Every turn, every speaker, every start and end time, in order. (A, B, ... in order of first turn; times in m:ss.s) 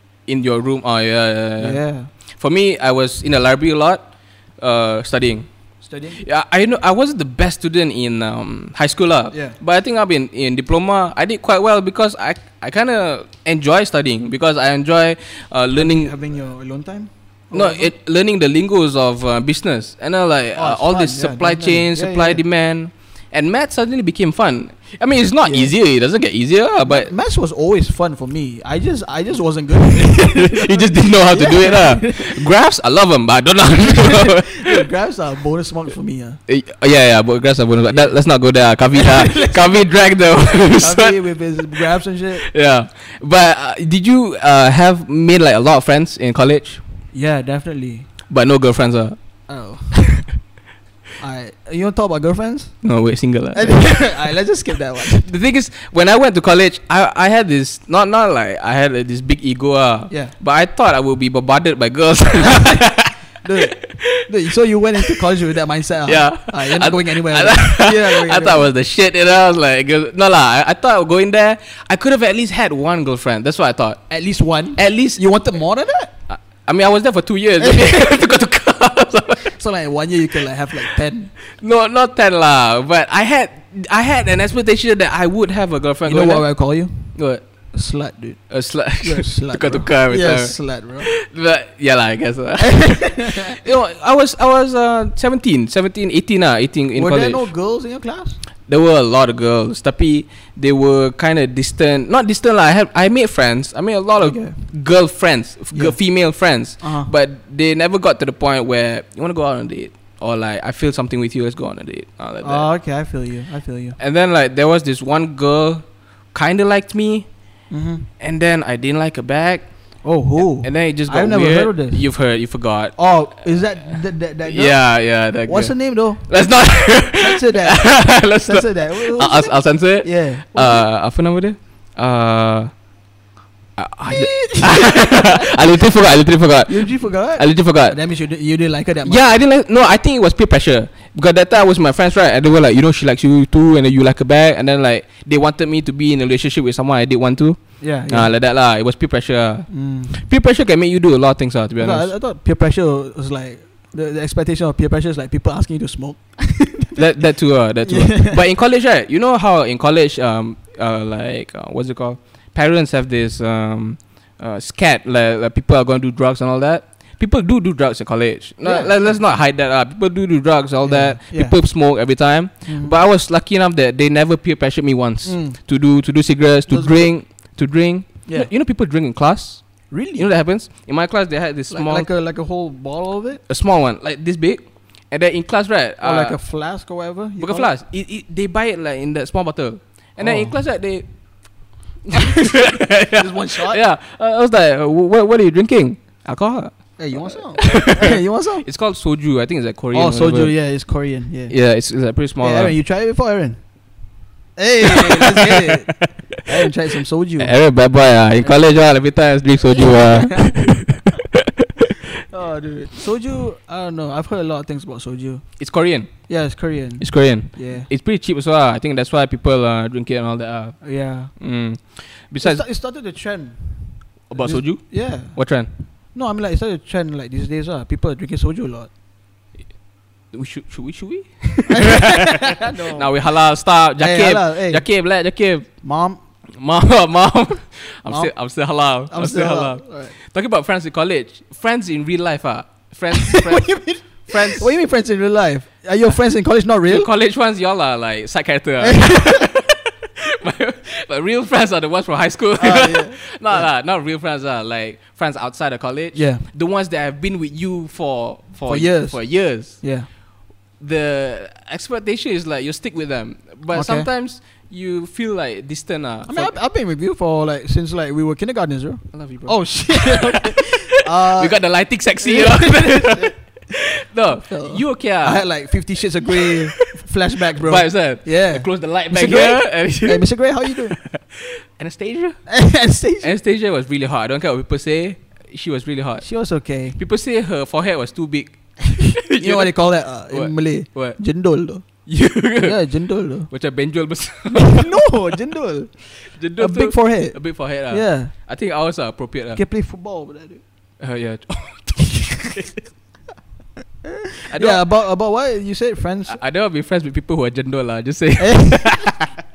0:00.3-0:05.5 A
0:01.6-0:02.1 B
0:05.8-0:06.2 B
0:06.2-0:16.1 A
0:09.3-0:09.6 B
0:15.8-0:17.9 B
0:17.5-0:27.1 A
0:20.6-0:22.4 B
0:25.4-0:25.7 B
0:26.8-0:32.4 B
0:30.0-0:34.9 A
0:33.8-0:36.4 B
0:36.5-0:41.2 A
0:37.9-0:38.2 B
0:38.9-0:39.9 B
0:40.7-0:42.5 B
0:42.4-0:46.8 A
0:47.1-0:48.1 B
0:48.3-0:49.2 A
0:49.5-0:50.3 B
0:51.2-0:52.8 B
0:52.8-0:54.2 A
0:53.5-0:55.3 B
0:55.1-1:04.2 A
1:03.4-1:08.7 B
1:06.1-1:14.0 A
1:14.1-1:16.1 B
1:14.8-1:15.2 A
1:16.3-1:19.6 A
1:17.6-1:18.0 B
1:19.4-1:21.3 B
1:21.5-1:26.5 A
1:26.0-1:27.2 B
1:27.1-1:27.4 A
1:27.7-1:31.1 B
1:28.5-1:37.5 A
1:32.6-1:33.6 B
1:37.0-1:38.4 B
1:38.7-1:52.7 A
1:44.2-1:44.6 B
1:45.7-1:46.0 B
1:46.8-1:47.1 B
1:52.4-1:54.0 B
1:54.0-1:57.3 A
1:57.7-1:58.1 B
1:58.2-1:59.7 A
2:00.0-2:02.1 B
2:00.4-2:03.0 A
2:03.0-2:10.9 B
2:04.4-2:12.7 A
2:13.8-2:18.0 A
2:14.1-2:15.5 B
2:16.7-2:19.2 B
2:19.0-2:32.1 A
2:27.8-2:28.3 B
2:29.7-2:30.2 B
2:31.8-2:37.0 B
2:37.0-3:02.1 A
2:37.8-2:38.4 B
2:48.6-2:49.2 B
2:50.8-2:51.6 B
2:52.7-2:53.0 B
2:55.2-2:55.6 B
2:56.7-2:57.2 B
2:59.9-3:00.3 B
3:01.7-3:03.4 B
3:03.5-3:06.4 A
3:06.0-3:07.7 B
3:07.4-3:11.1 A
3:10.2-3:10.6 B
3:12.1-3:20.6 A
3:13.1-3:13.8 B
3:17.0-3:18.7 B
3:19.9-3:21.5 B
3:21.5-3:22.8 A
3:22.4-3:23.6 B
3:24.6-3:27.6 B
3:24.9-3:26.1 A
3:27.4-3:31.8 A
3:29.8-3:31.0 B
3:32.2-3:35.5 B
3:35.6-3:36.3 A
3:36.3-3:37.9 B
3:37.0-3:42.6 A
3:40.8-3:41.3 B
3:42.4-3:45.4 B
3:44.3-3:45.7 A
3:46.1-3:48.9 B
3:50.3-3:55.7 A
3:51.7-3:53.1 B
3:54.0-3:54.9 B
3:55.8-3:56.2 B
3:56.5-4:04.7 A
3:58.1-3:58.3 B
3:59.1-4:00.1 B
4:03.1-4:07.1 B
4:06.9-4:19.8 A
4:08.8-4:09.5 B
4:12.6-4:13.7 B
4:16.1-4:16.4 B
4:18.7-4:20.1 B
4:20.8-4:26.6 A
4:23.7-4:24.1 B
4:26.3-4:33.4 B
4:29.1-4:35.6 A
4:34.5-4:41.0 B
4:36.4-4:37.0 A
4:37.6-4:42.5 A
4:42.5-4:43.3 B
4:43.2-4:46.3 A
4:46.2-4:47.0 B
4:47.0-4:51.2 A
4:49.0-4:51.9 B
4:52.1-4:52.9 A
4:52.6-4:53.5 B
4:53.5-4:55.0 A
4:54.5-4:58.3 B
4:56.2-4:59.6 A
4:59.5-5:00.6 B
5:01.0-5:02.9 A
5:04.1-5:06.4 B
5:04.5-5:04.8 A
5:06.3-5:09.3 A
5:08.4-5:09.1 B